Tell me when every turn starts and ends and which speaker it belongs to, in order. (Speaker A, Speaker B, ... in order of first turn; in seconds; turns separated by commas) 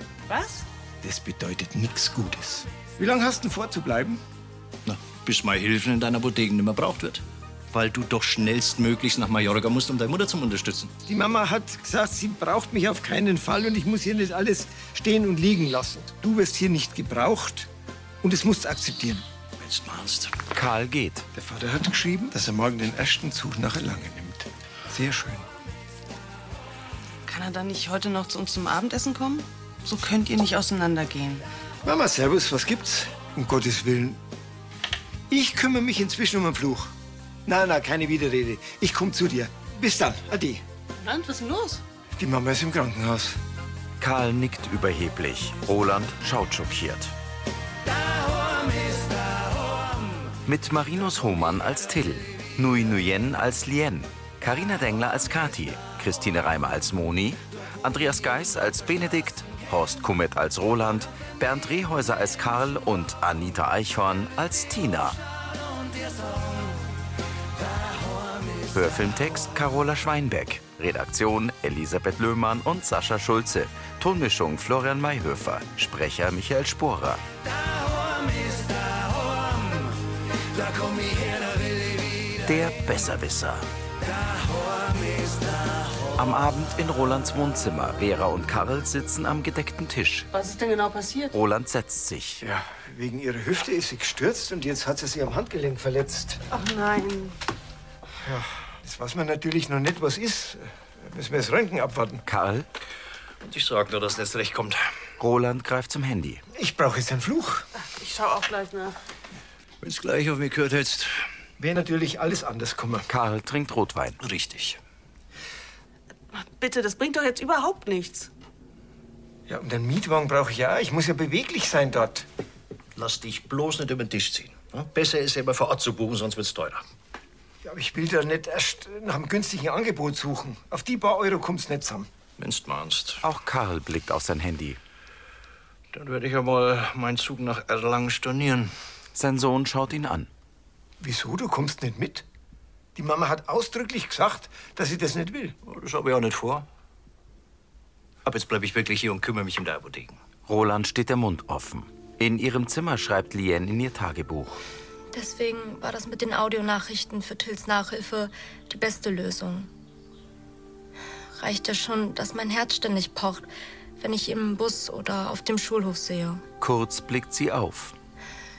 Speaker A: 0.3-0.6, Speaker B: 1.0-4.2, Speaker C: 4.8-10.9, Speaker B: 11.1-17.7, Speaker B: 18.2-19.2, Speaker C: 19.6-20.3, Speaker D: 20.5-21.2, Speaker B: 21.3-25.4, Speaker A: 27.2-31.4, Speaker B: 31.8-34.2, Speaker B: 35.3-36.9, Speaker B: 37.5-40.6, Speaker A: 41.0-41.8, Speaker B: 42.2-43.4, Speaker D: 44.0-47.1, Speaker D: 50.5-65.2, Speaker D: 68.7-77.2, Speaker D: 82.4-83.7, Speaker D: 86.2-90.3, Speaker A: 90.3-91.3, Speaker D: 91.3-92.4, Speaker B: 92.4-96.4, Speaker A: 96.5-97.3, Speaker B: 98.2-102.2, Speaker D: 102.2-102.7, Speaker C: 103.4-104.8, Speaker D: 105.2-106.4, Speaker B: 106.5-107.7, Speaker A: 107.8-108.9, Speaker C: 109.8-111.2, Speaker B: 111.6-113.1, Speaker D: 113.1-114.2, Speaker C: 114.2-114.8, Speaker A: 116.3-118.3, Speaker B: 119.5-122.2, Speaker C: 123.0-126.8, Speaker B: 127.6-132.1, Speaker C: 132.4-133.2, Speaker D: 133.2-134.8, Speaker C: 135.9-138.7, Speaker D: 139.1-140.3, Speaker B: 141.0-142.2, Speaker B: 142.9-145.5, Speaker C: 145.6-146.6, Speaker C: 148.2-150.2, Speaker D: 150.5-154.6, Speaker E: 155.1-159.7, Speaker E: 161.4-163.5, Speaker E: 164.0-166.4, Speaker D: 166.6-167.9